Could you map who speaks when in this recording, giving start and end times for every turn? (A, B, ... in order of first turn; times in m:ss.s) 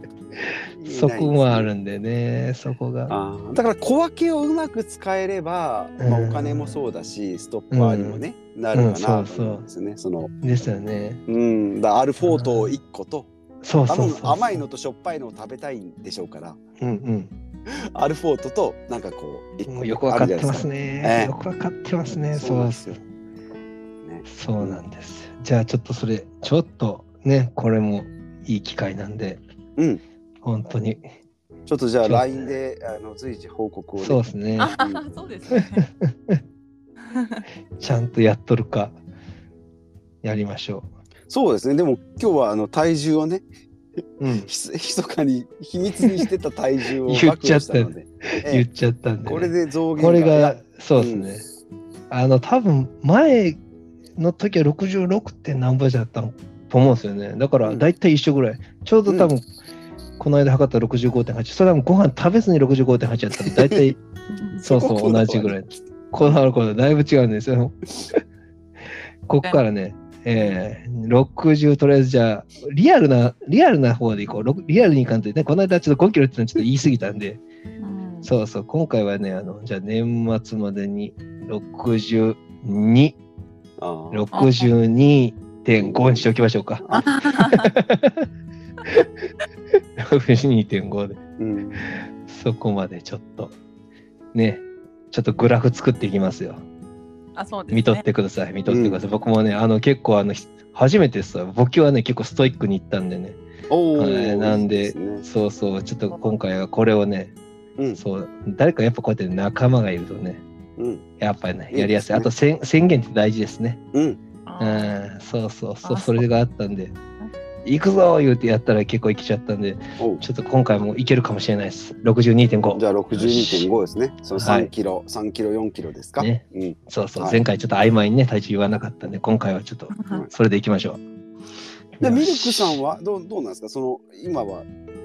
0:00.5-0:03.1 A
0:00.7-0:01.7 B
0:03.1-0:10.3 B
0:06.0-0:06.8 A
0:07.7-0:09.6 A
0:10.4-0:11.2 A
0:11.3-0:13.3 B
0:12.2-0:12.8 A
0:13.6-0:14.6 A
0:13.9-0:16.6 B
0:16.8-0:17.3 A
0:17.7-0:21.3 B
0:19.7-0:23.0 A
0:22.1-0:23.0 B
0:24.0-0:24.8 B
0:24.3-0:29.4 A
0:29.8-0:30.0 B
0:30.4-0:31.0 A
0:31.7-0:35.0 B
0:32.0-0:32.6 A
0:34.0-0:34.7 A
0:34.6-0:35.8 C
0:35.5-0:36.4 A
0:37.0-0:37.4 C
0:37.8-0:39.0 A
0:40.2-0:40.9 A
0:41.3-0:43.4 B
0:44.2-0:44.5 A
0:44.4-0:48.6 B
0:46.0-0:46.2 A
0:47.0-0:51.4 A
0:49.2-0:51.3 B
0:52.1-0:53.6 A
0:54.2-0:59.4 A
1:00.2-1:04.0 A
1:03.4-1:03.9 B
1:04.3-1:04.6 C
1:04.6-1:05.8 B
1:04.6-1:08.2 A
1:09.3-1:17.4 A
1:10.3-1:10.6 C
1:17.8-1:18.3 C
1:18.2-1:23.2 A
1:23.8-1:24.3 B
1:24.1-1:28.3 A
1:24.3-1:24.7 C
1:25.8-1:26.2 B
1:26.8-1:27.1 B
1:27.0-1:27.7 C
1:30.0-1:31.2 A
1:31.4-1:31.9 B
1:32.0-1:33.5 A
1:34.3-1:36.6 A
1:37.4-1:38.0 C
1:37.7-1:43.4 A
1:38.7-1:39.0 B
1:43.7-1:45.2 B
1:43.9-1:47.3 A
1:48.0-1:50.4 A
1:50.8-1:51.0 B
1:51.2-1:53.8 A
1:51.7-1:52.3 B
1:53.9-1:54.2 B
1:54.4-1:55.0 C
1:54.6-1:57.0 A
1:55.8-1:56.3 C
1:57.6-2:03.7 A
2:00.0-2:00.2 B
2:02.7-2:07.4 B
2:04.3-2:04.7 A
2:06.2-2:11.0 A
2:09.9-2:10.2 C
2:12.0-2:12.8 A
2:12.0-2:14.7 B